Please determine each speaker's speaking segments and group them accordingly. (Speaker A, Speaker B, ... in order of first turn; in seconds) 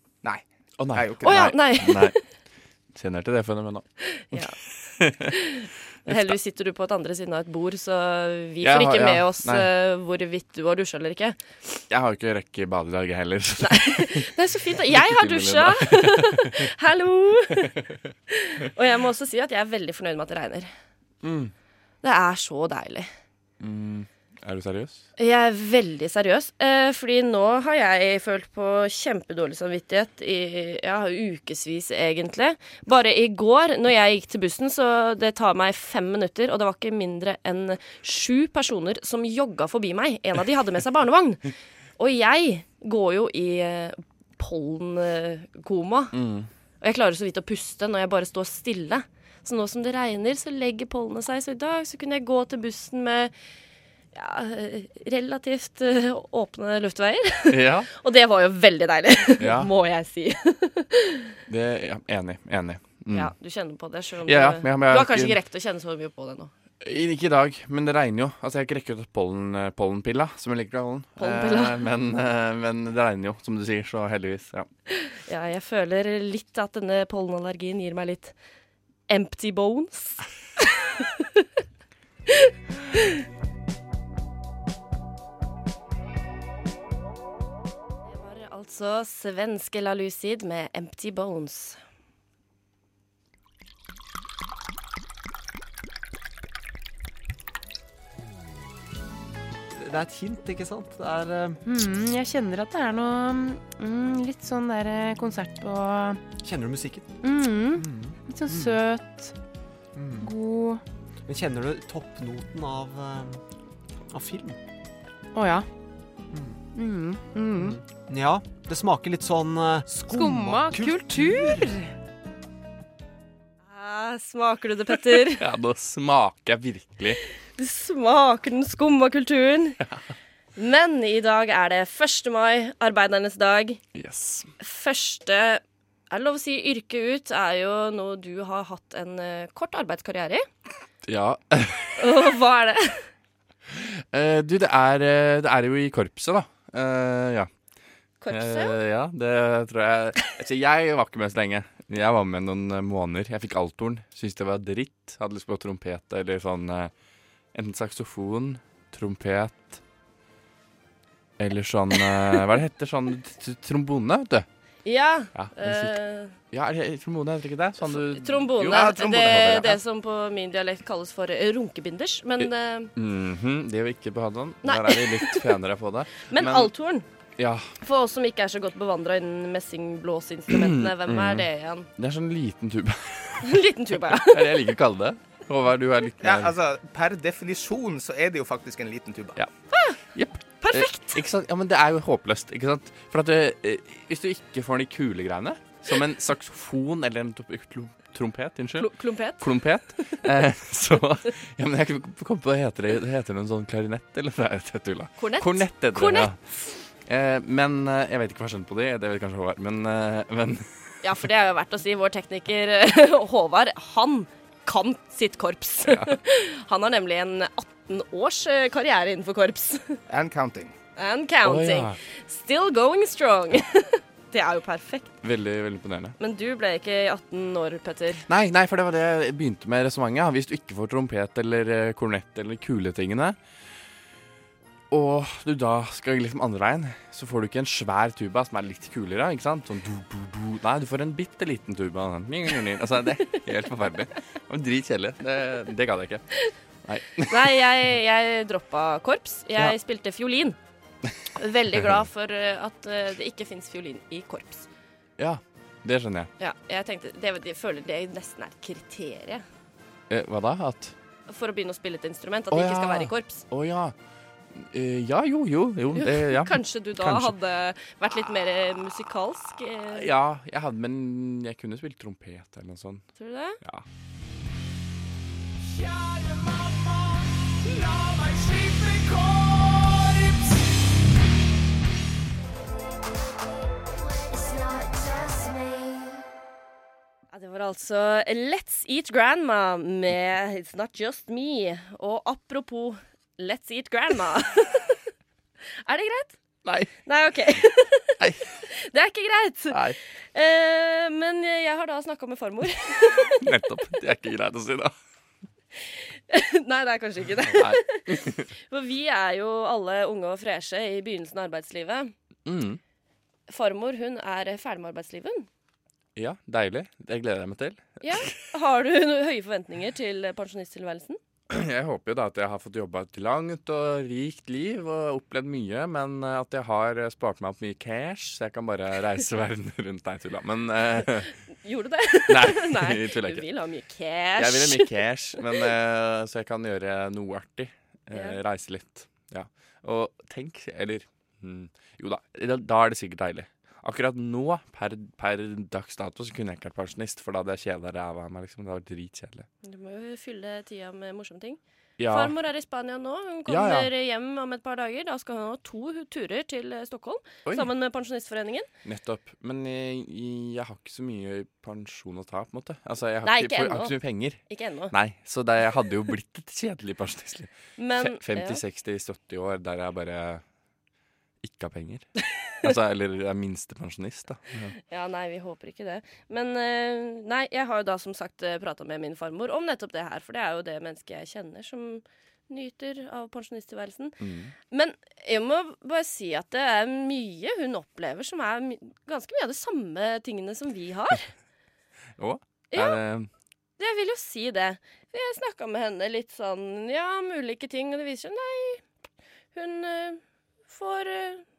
Speaker A: 0.2-1.4, 168.7-169.6, 186.2-189.4, 220.1-220.7
Speaker B: 0.8-2.1, 2.9-4.4, 5.0-5.3, 6.0-6.4, 8.6-9.7, 11.9-16.7, 21.2-21.5, 23.6-25.0, 46.1-46.5, 57.5-57.9, 59.4-59.7, 61.5-63.3, 64.2-65.4, 66.8-74.7, 125.1-127.2, 133.9-134.5, 141.0-142.1, 143.7-147.5, 148.3-156.9, 157.5-159.8, 161.4-164.5, 165.3-169.7, 172.4-176.7, 177.4-177.7, 180.5-186.5, 190.0-206.4, 207.1-210.7, 215.8-216.2, 221.4-222.0, 225.2-226.2, 228.3-233.4, 234.9-246.2, 246.8-247.7, 251.7-252.0, 255.2-256.3, 260.1-260.9, 262.5-263.9, 264.5-267.3, 269.9-273.0, 278.0-279.4, 296.6-296.9, 298.2-298.4, 299.7-300.0, 303.2-304.9, 307.4-308.5, 312.4-312.8, 316.1-318.3, 321.5-331.3, 332.3-333.4, 334.4-349.5, 352.0-352.3, 353.5-353.9, 358.8-364.4, 364.9-370.4, 371.4-372.1, 372.6-374.7, 384.2-384.5, 392.2-393.3
Speaker C: 1.2-2.2, 4.1-4.6, 5.3-11.4, 13.6-17.7, 18.3-20.7, 22.0-23.1, 25.2-46.1, 46.8-53.3, 54.1-61.4, 63.1-66.5, 71.2-71.8, 74.9-78.3, 79.1-81.4, 82.3-83.1, 88.0-91.8, 123.7-125.5, 127.5-129.8, 130.6-133.8, 134.6-140.4, 142.0-143.1, 148.2-148.8, 164.8-166.3, 167.8-172.9, 174.6-175.5, 176.3-177.1, 177.8-181.9, 183.4-184.7, 189.7-190.0, 190.6-191.2, 198.8-200.3, 205.2-206.3, 211.0-220.0, 220.9-225.2, 226.2-228.2, 247.3-250.6, 251.3-254.7, 256.4-259.4, 261.3-263.4, 265.9-270.1, 273.2-273.6, 287.3-295.0, 295.8-296.4, 297.0-303.5, 306.3-312.1, 313.5-315.5, 318.0-321.2, 331.5-335.0, 338.1-338.4, 349.6-358.7, 363.2-364.9, 367.8-368.6, 374.8-384.2, 384.7-391.3, 392.7-393.0, 393.8-398.8, 399.5-401.4
Speaker D: 99.8-101.6, 106.3-107.1, 107.7-108.8, 109.9-110.3, 111.2-113.4, 114.1-114.6, 116.3-116.6, 117.5-121.7
Speaker E: 101.7-106.2, 107.2-109.3, 110.2-110.8, 115.3-115.7, 116.7-117.8, 120.0-121.9